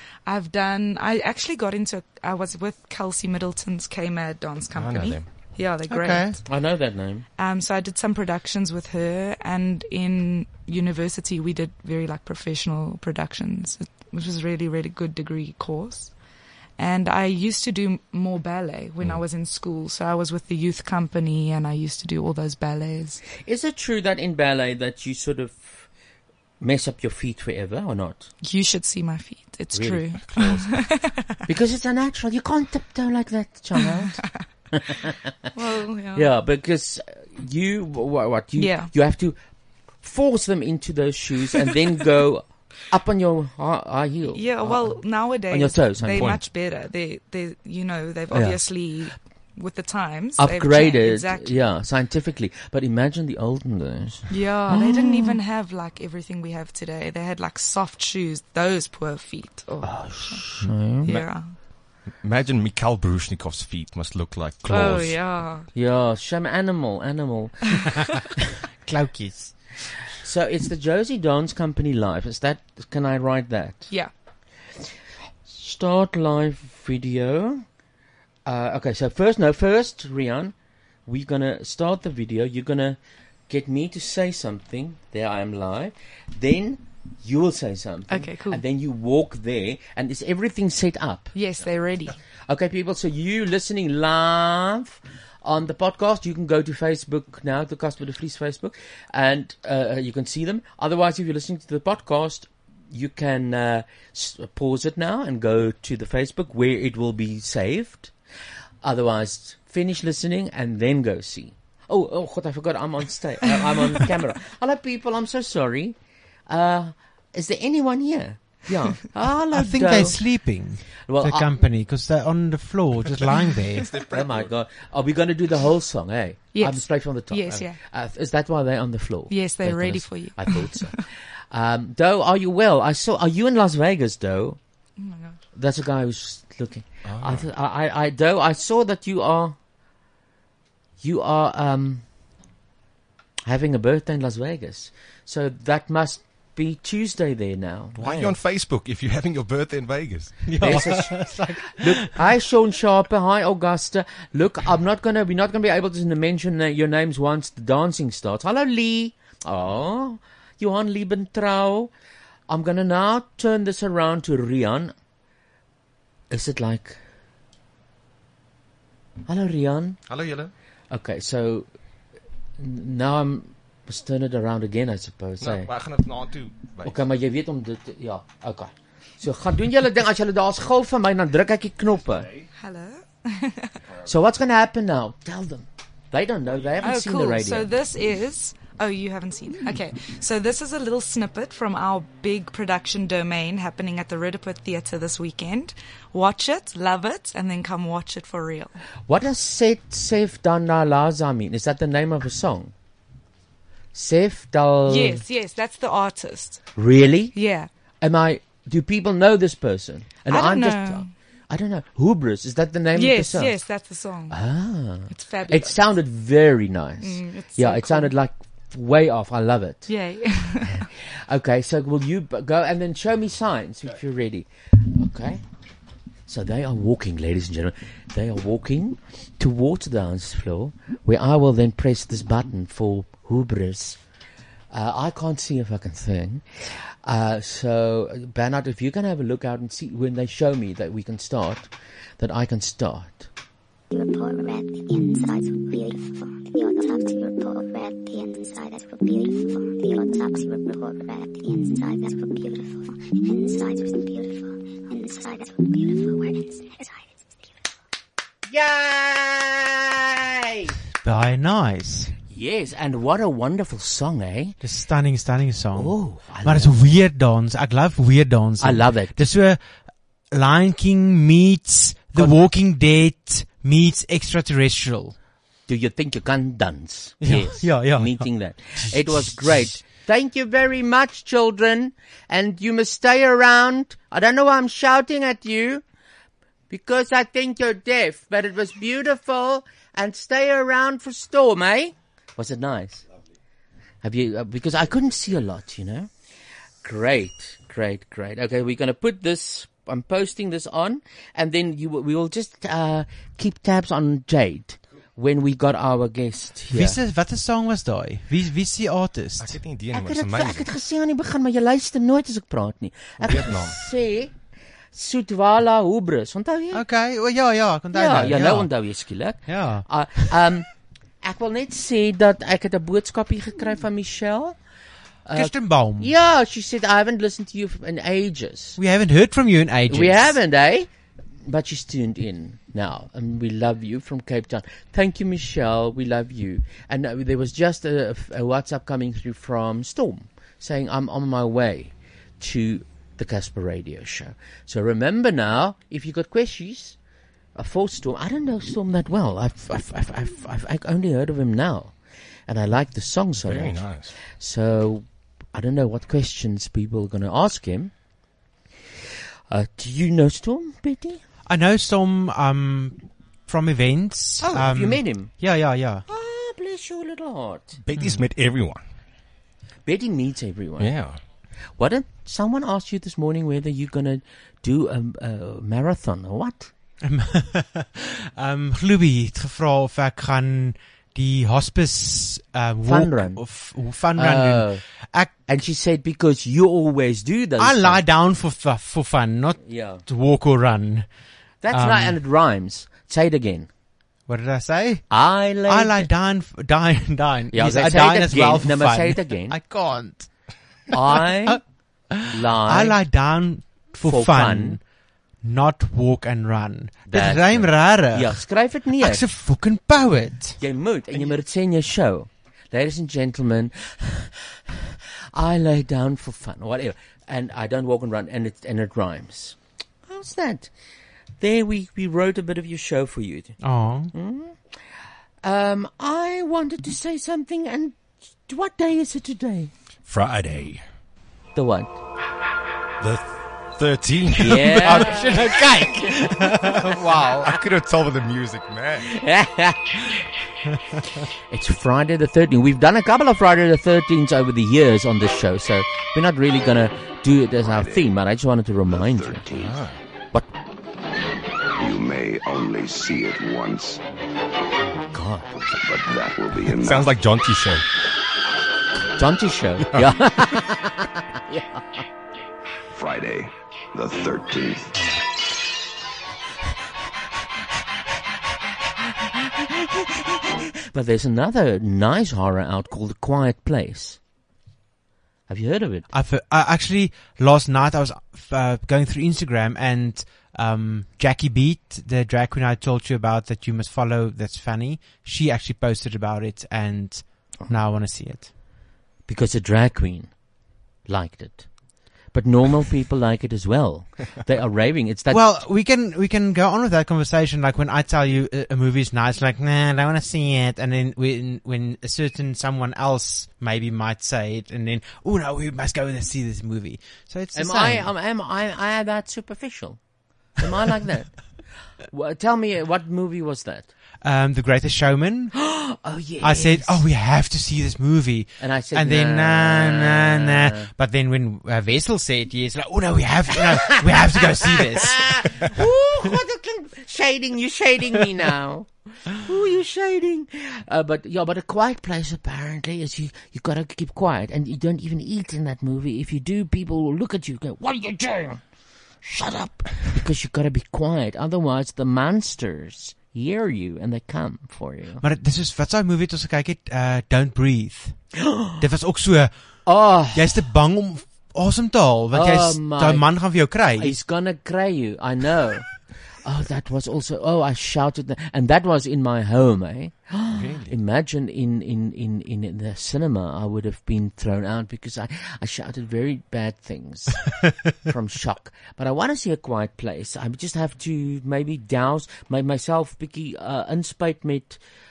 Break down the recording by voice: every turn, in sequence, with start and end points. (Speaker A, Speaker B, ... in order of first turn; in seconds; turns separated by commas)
Speaker A: 0.2-6.4, Speaker B: 4.7-5.3, Speaker B: 5.8-6.3, Speaker C: 6.4-7.2, Speaker A: 7.4-16.1, Speaker A: 16.8-23.2, Speaker C: 23.4-25.9, Speaker C: 26.6-28.3, Speaker A: 28.4-31.4, Speaker C: 29.7-30.7, Speaker C: 31.5-35.1, Speaker A: 33.8-34.4, Speaker A: 35.5-36.3, Speaker C: 36.1-39.4, Speaker A: 38.6-38.9, Speaker C: 40.0-46.4, Speaker A: 44.3-51.7, Speaker B: 46.0-46.4, Speaker C: 48.3-48.7, Speaker C: 50.4-55.4, Speaker A: 54.3-60.5, Speaker C: 59.8-61.2, Speaker A: 61.0-61.5, Speaker B: 61.0-61.3, Speaker B: 62.2-65.2, Speaker A: 64.7-65.7, Speaker C: 65.7-67.6, Speaker D: 68.8-69.6, Speaker C: 70.2-73.9, Speaker C: 75.5-77.6, Speaker C: 78.5-80.5, Speaker C: 81.0-91.3, Speaker A: 88.1-88.6, Speaker A: 91.3-92.2, Speaker C: 92.5-108.1, Speaker C: 108.8-116.0, Speaker C: 116.5-120.2, Speaker D: 119.5-123.9, Speaker C: 121.0-121.5, Speaker B: 123.8-124.5, Speaker C: 124.0-131.0, Speaker A: 126.5-127.8, Speaker A: 129.3-131.0, Speaker C: 131.5-134.6, Speaker A: 135.0-135.4, Speaker C: 135.5-139.6, Speaker B: 137.1-137.5, Speaker C: 141.0-142.0, Speaker C: 143.4-148.3, Speaker B: 148.0-150.5, Speaker D: 150.4-152.1, Speaker C: 150.6-161.9, Speaker C: 162.5-164.9, Speaker C: 166.3-167.0, Speaker C: 169.3-170.0, Speaker B: 170.1-170.5, Speaker C: 170.9-171.7, Speaker C: 172.6-175.7, Speaker B: 175.4-177.0, Speaker C: 176.8-182.4, Speaker A: 182.5-183.7, Speaker C: 184.0-187.7, Speaker A: 186.8-198.8, Speaker C: 199.1-202.7, Speaker C: 203.9-205.2, Speaker A: 204.8-206.6, Speaker C: 206.8-207.4, Speaker A: 207.3-207.7, Speaker C: 208.0-213.6, Speaker A: 210.2-211.1, Speaker A: 212.9-214.4, Speaker C: 214.3-219.9, Speaker A: 215.1-215.8, Speaker A: 217.0-218.1, Speaker A: 219.9-220.9, Speaker C: 220.7-225.4, Speaker C: 226.3-234.0, Speaker C: 234.7-243.3, Speaker E: 243.9-257.7, Speaker C: 258.5-260.7, Speaker D: 261.0-262.1, Speaker C: 262.3-264.6, Speaker D: 264.6-269.6, Speaker C: 265.7-266.9, Speaker C: 268.6-269.1, Speaker D: 270.3-275.1, Speaker C: 275.7-285.8, Speaker D: 277.2-279.7, Speaker C: 286.7-293.0, Speaker C: 294.0-296.1, Speaker C: 296.8-307.0, Speaker D: 306.7-309.6, Speaker B: 309.4-310.7, Speaker C: 309.9-314.3, Speaker B: 313.2-313.8, Speaker C: 314.9-316.8, Speaker D: 316.7-318.7, Speaker C: 317.9-320.7, Speaker D: 319.4-319.9, Speaker C: 321.2-324.6, Speaker C: 325.2-328.8, Speaker D: 325.3-326.1, Speaker D: 328.8-330.4, Speaker C: 329.9-330.9, Speaker C: 331.4-347.0, Speaker C: 347.6-352.0, Speaker C: 352.5-357.9, Speaker B: 353.4-354.1, Speaker C: 359.5-361.2, Speaker D: 361.4-366.0, Speaker C: 364.4-365.4, Speaker C: 366.1-367.8, Speaker B: 367.8-368.8, Speaker C: 369.9-370.9, Speaker B: 370.8-371.2, Speaker C: 371.8-376.7, Speaker D: 377.0-385.4, Speaker C: 382.8-383.4, Speaker C: 384.1-384.8, Speaker C: 385.4-388.0, Speaker D: 387.6-391.1, Speaker C: 389.6-390.0, Speaker C: 391.6-393.7, Speaker D: 391.7-392.2, Speaker D: 394.3-400.3, Speaker C: 395.1-396.1, Speaker C: 397.5-399.6, Speaker C: 400.9-401.6, Speaker D: 401.1-401.6, Speaker D: 402.1-404.8, Speaker C: 402.2-402.9, Speaker C: 404.0-404.8, Speaker D: 405.4-410.6, Speaker C: 407.1-409.2, Speaker C: 410.6-420.7, Speaker C: 421.4-423.6, Speaker D: 423.6-424.1, Speaker C: 424.1-424.6, Speaker C: 425.4-429.7, Speaker B: 430.1-430.8, Speaker C: 431.5-431.9, Speaker B: 433.0-435.3, Speaker C: 434.4-436.9, Speaker D: 434.8-437.5, Speaker B: 437.4-439.1, Speaker C: 439.0-440.2, Speaker C: 441.5-449.4, Speaker F: 447.7-448.0, Speaker F: 449.0-449.7, Speaker B: 449.5-450.0, Speaker F: 451.8-454.0, Speaker C: 455.1-455.6, Speaker F: 455.7-457.1, Speaker B: 456.8-457.8, Speaker C: 459.1-462.0, Speaker F: 462.9-464.9, Speaker C: 464.9-465.3, Speaker C: 469.4-474.2, Speaker C: 475.5-476.1, Speaker D: 476.1-488.5, Speaker C: 489.3-490.3, Speaker C: 491.1-491.7, Speaker C: 492.3-495.4, Speaker D: 495.3-508.1, Speaker C: 507.5-510.0, Speaker C: 510.6-513.9, Speaker D: 514.2-515.5, Speaker C: 515.6-517.0, Speaker D: 516.4-525.3, Speaker C: 518.6-520.9, Speaker C: 523.5-538.6, Speaker C: 539.2-545.2, Speaker D: 545.2-548.2, Speaker C: 548.4-548.8, Speaker D: 548.8-554.1, Speaker C: 549.9-550.6, Speaker C: 552.3-574.8, Speaker B: 560.5-561.0